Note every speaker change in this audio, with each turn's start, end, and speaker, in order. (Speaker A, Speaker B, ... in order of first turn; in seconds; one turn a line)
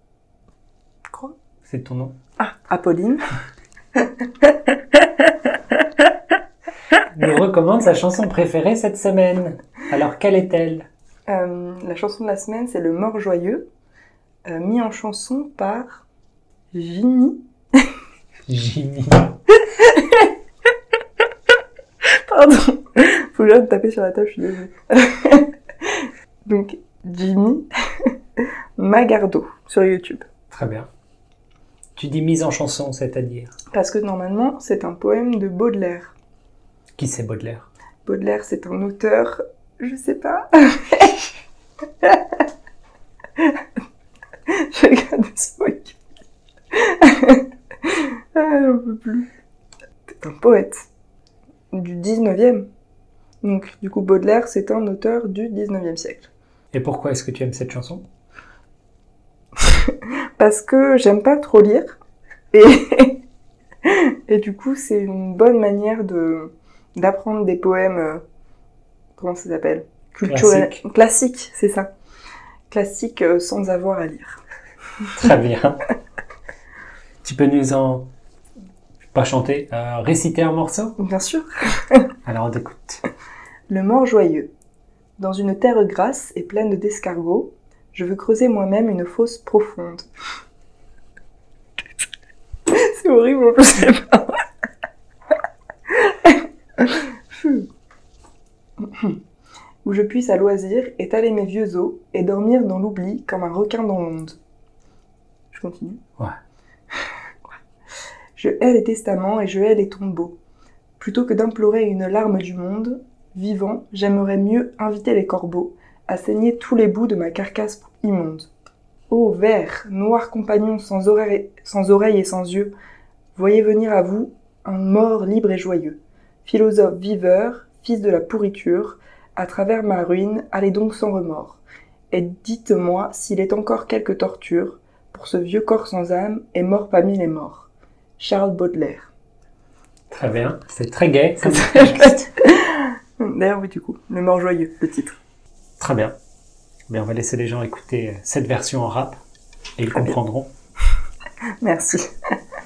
Speaker A: 1.6-2.1
Speaker B: 2.4-3.2
Speaker B: 4.4-5.0
Speaker A: 7.1-10.9
Speaker B: 11.3-13.7
Speaker B: 14.5-16.0
Speaker B: 16.7-17.4
Speaker A: 18.5-19.4
Speaker B: 19.6-20.3
Speaker B: 22.3-25.9
Speaker B: 26.4-28.1
Speaker B: 28.8-30.2
Speaker A: 30.5-30.9
Speaker A: 31.9-33.5
Speaker B: 33.7-36.1
Speaker A: 37.0-37.7
Speaker B: 38.0-41.3
Speaker B: 42.0-42.4
Speaker B: 44.5-46.0
Speaker B: 46.8-49.3
Speaker B: 50.1-50.9
Speaker B: 51.7-52.6
Speaker B: 53.4-56.3
Speaker A: 56.7-58.0
Speaker B: 59.6-62.0
Speaker B: 62.5-63.2
Speaker B: 63.8-68.2
Speaker B: 69.2-71.9
Speaker A: 70.2-70.8
Speaker B: 72.7-74.4
Speaker A: 75.1-75.8
Speaker A: 77.2-78.1
Speaker A: 79.0-80.9
Speaker B: 81.0-82.0
Speaker A: 82.2-83.0
Speaker B: 83.7-84.5
Speaker B: 85.2-90.1
Speaker B: 92.7-94.3
Speaker B: 95.9-97.7
Speaker B: 98.8-99.2
Speaker B: 99.8-104.4
Speaker B: 105.5-106.0
Speaker B: 108.3-110.4
Speaker B: 111.0-118.5
Speaker B: 119.1-122.7
Speaker B: 123.3-131.6
Speaker B: 132.1-139.1
Speaker A: 140.1-142.2
Speaker B: 141.4-145.2
Speaker A: 145.8-146.1
Speaker A: 146.9-149.2
Speaker A: 149.8-150.5
Speaker B: 151.6-152.1